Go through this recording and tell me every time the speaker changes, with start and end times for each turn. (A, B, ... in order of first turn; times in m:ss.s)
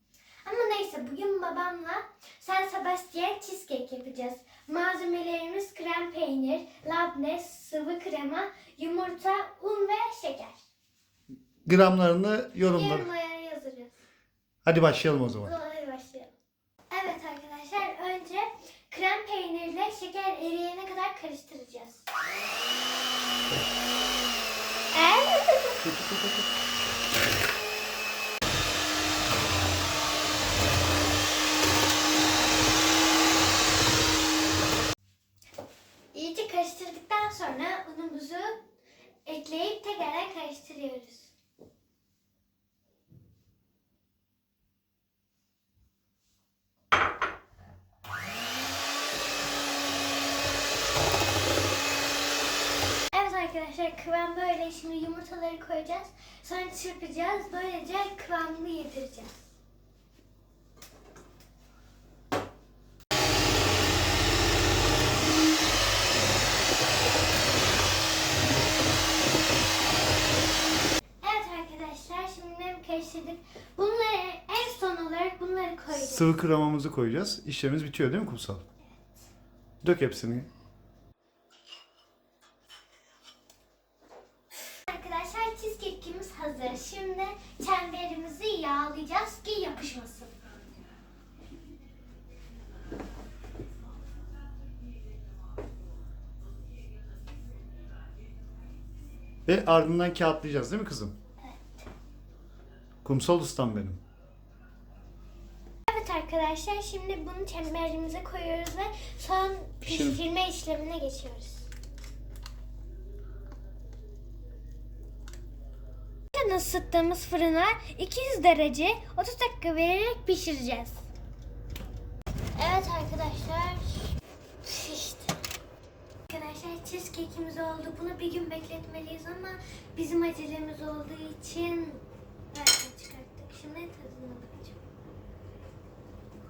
0:00.4-0:10.6 A
0:11.6-0:13.1 B
0:12.6-0:13.9 A
0:14.6-0:15.5 B
0:15.4-0:16.3 A
0:16.9-0:22.0 A
0:24.9-0:25.8 A
0:25.8-0:26.5 B
0:36.1-0:38.6 A
0:39.2-0:41.3 A
0:53.1-0:59.5 A
1:11.2-1:16.3 A
1:15.9-1:18.6 B
1:18.9-1:19.2 A
1:19.8-1:20.5 B
1:24.9-1:30.3 A
1:39.4-1:41.1 B
1:41.4-1:41.8 A
1:43.0-1:44.0 B
1:45.9-1:51.7 A
1:49.8-1:50.2 B
1:56.3-2:01.1 A
2:02.5-2:05.4 A
2:06.3-2:14.8 A